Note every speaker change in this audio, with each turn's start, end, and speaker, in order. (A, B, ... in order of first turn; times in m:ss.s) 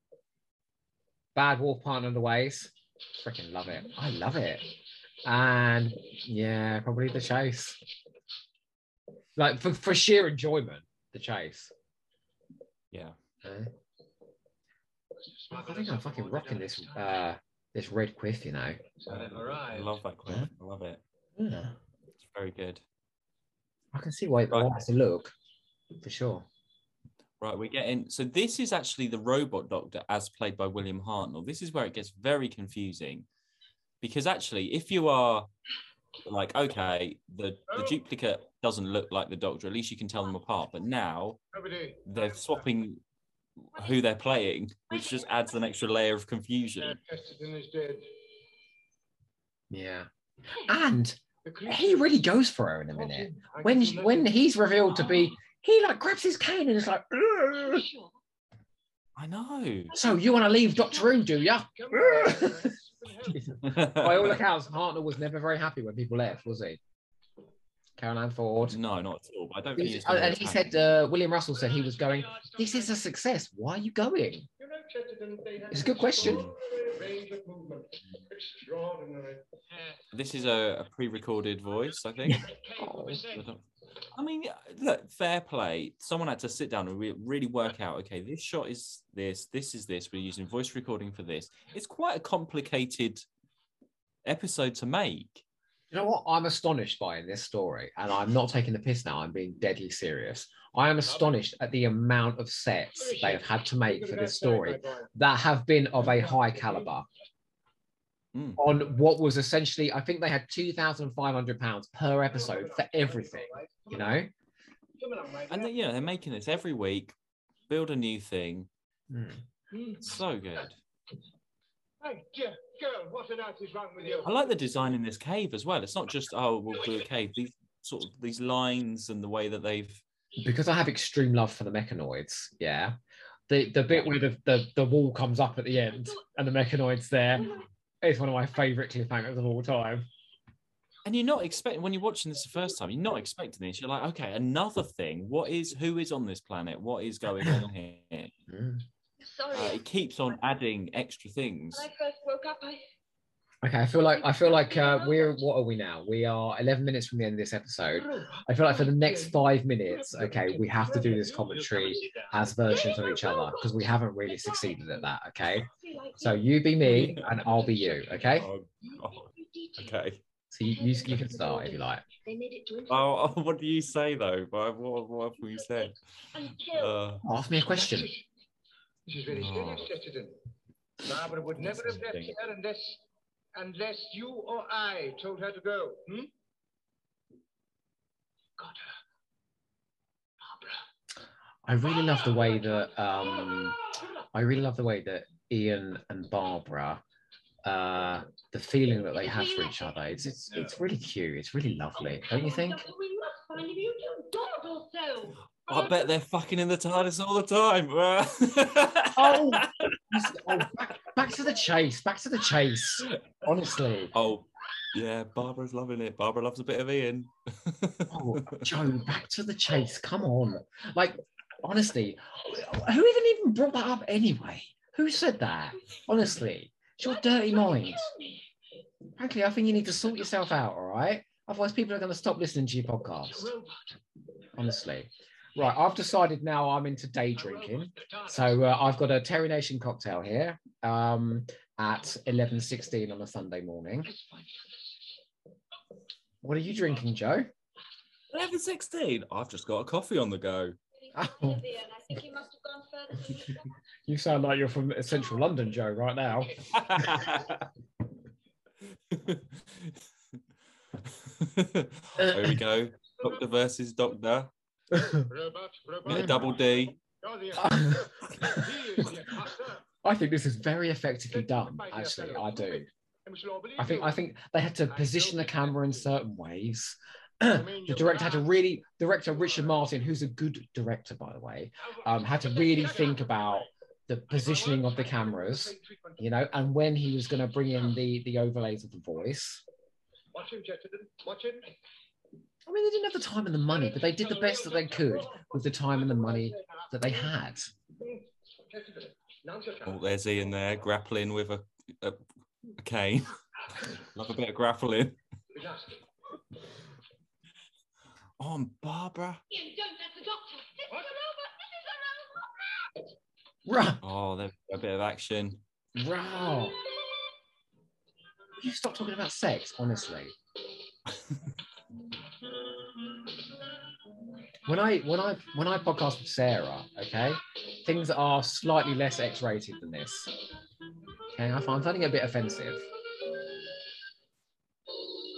0:01.3-0:04.6 A
0:05.2-0:07.8 A
0:09.4-0:11.7 A
0:12.9-0:13.2 B
0:13.4-0:13.7 A
0:15.2-0:17.2 C
0:15.5-0:18.8 A
0:19.0-0:20.0 C
0:19.1-0:21.0 B
0:21.4-0:21.8 A
0:22.2-0:22.8 B
0:23.9-0:25.3 A
0:24.5-0:24.8 B
0:26.0-0:26.4 A
0:27.4-0:33.3 B
0:34.0-0:35.5 B
0:36.2-0:41.4 B
0:37.7-0:38.0 C
0:41.5-0:42.7 C
0:42.0-0:43.0 B
0:43.7-0:47.0 B
0:44.9-0:45.7 D
0:46.8-0:48.1 C
0:49.7-0:50.1 A
0:50.6-0:57.8 A
0:51.4-0:52.0 C
0:52.9-0:54.4 C
0:57.6-0:58.1 D
0:59.2-1:00.0 B
0:59.9-1:01.1 D
0:59.9-1:02.7 A
1:01.7-1:03.5 C
1:03.3-1:06.8 A
1:03.6-1:04.4 B
1:08.0-1:08.8 A
1:08.7-1:10.8 B
1:09.8-1:14.5 A
1:11.6-1:12.9 C
1:14.6-1:20.0 C
1:15.7-1:16.5 A
1:16.2-1:16.6 B
1:20.1-1:22.5 B
1:22.3-1:23.2 A
1:22.3-1:23.5 C
1:23.3-1:33.2 B
1:34.2-1:35.4 B
1:35.9-1:47.0 A
1:41.1-1:41.4 C
1:43.0-1:45.1 C
1:46.0-1:46.9 C
1:48.3-1:48.6 B
1:48.6-1:54.3 A
1:52.3-1:54.2 C
1:55.0-1:55.9 C
1:55.5-1:57.1 B
1:57.7-1:58.7 B
1:59.1-1:59.4 A
1:59.7-2:00.2 C
2:00.0-2:00.8 B
2:02.0-2:04.5 C
2:04.2-2:10.0 B
2:10.4-2:13.0 A
2:13.5-2:20.0 A
2:17.3-2:17.7 D
2:21.0-2:28.3 B
2:28.5-2:28.8 A
2:29.2-2:29.8 D
2:29.5-2:31.9 B
2:31.7-2:32.8 D
2:33.6-2:48.5 A
2:34.1-2:35.4 D
2:37.9-2:42.4 C
2:42.7-2:50.0 D
2:46.8-2:47.3 B
2:48.3-2:50.2 B
2:50.5-2:52.0 A
2:50.7-2:53.2 D
2:52.9-2:56.0 B
2:55.4-2:57.0 D
2:56.7-2:57.2 B
2:57.2-2:58.1 A
2:57.7-2:58.2 C
2:59.1-3:00.4 C
2:59.3-2:59.9 B
3:01.0-3:03.0 C
3:01.6-3:02.3 B
3:03.5-3:06.3 C
3:10.5-3:10.8 C
3:11.6-3:13.8 A
3:14.3-3:17.0 A
3:17.6-3:22.8 A
3:19.2-3:19.9 D
3:22.0-3:26.1 D
3:25.7-3:30.6 B
3:29.1-3:34.1 A
3:34.1-3:38.8 B
3:38.1-3:48.1 A
3:47.0-3:48.5 D
3:49.2-3:53.5 A
3:53.3-3:53.8 C
3:54.6-4:04.1 A
3:57.4-3:58.6 C
4:04.1-4:04.7 C
4:06.4-4:07.5 A
4:08.3-4:10.8 B
4:11.0-4:13.6 D
4:11.1-4:11.6 A
4:14.1-4:17.5 A
4:16.7-4:17.5 B
4:19.1-4:20.0 B
4:21.0-4:24.5 B
4:22.2-4:22.6 A
4:24.9-4:29.8 C
4:26.0-4:26.9 B
4:27.6-4:29.1 A
4:30.0-4:32.8 A
4:31.3-4:34.2 C
4:33.8-4:49.6 A
4:34.9-4:36.1 C
4:37.5-4:38.5 C
4:39.3-4:39.9 C
4:41.9-4:43.7 C
4:44.3-4:46.2 C
4:50.3-4:51.7 C
4:52.6-4:57.7 A
4:53.9-4:57.3 C
4:58.0-5:00.0 C
4:59.8-5:02.2 B
5:02.8-5:05.2 B
5:05.5-5:06.0 C
5:08.4-5:09.4 B
5:09.5-5:12.8 D
5:13.6-5:14.0 A
5:14.0-5:15.6 B
5:16.0-5:16.8 A
5:18.6-5:20.3 A
5:24.6-5:30.3 A
5:31.3-5:32.8 A